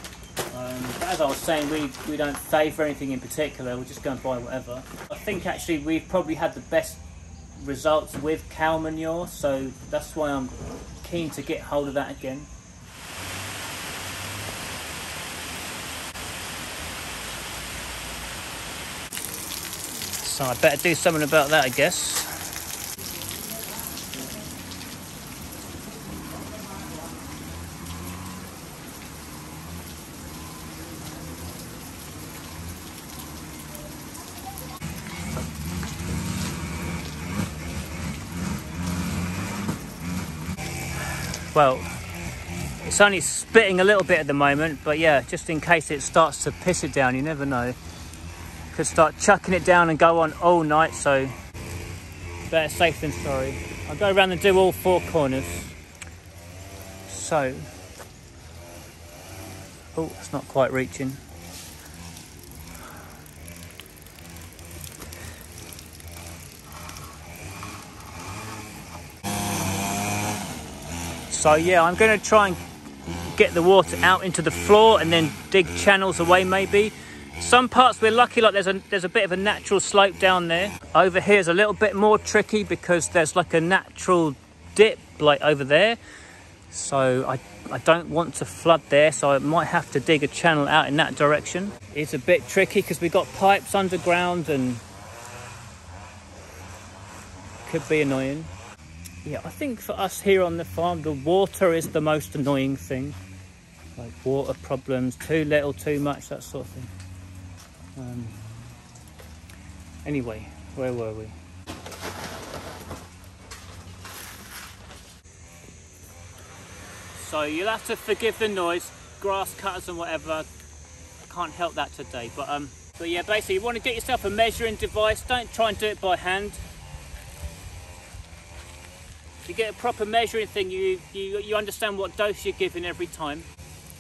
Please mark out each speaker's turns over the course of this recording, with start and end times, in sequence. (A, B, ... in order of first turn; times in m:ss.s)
0:00.5-0:07.0 A
0:07.6-0:12.5 A
0:20.1-0:22.4 A
0:41.4-0:42.0 A
0:42.8-0:47.8 A
0:48.7-0:51.3 A
0:52.5-0:55.7 A
0:57.1-0:57.7 A
0:59.9-1:01.2 A
1:11.3-1:26.0 A
1:26.7-1:34.8 A
1:37.6-1:38.5 A
1:39.2-1:43.2 A
1:44.0-1:46.9 A
1:48.0-1:48.4 A
1:50.0-1:51.4 A
1:57.1-2:00.5 A
2:01.2-2:06.6 A
2:09.4-2:13.5 A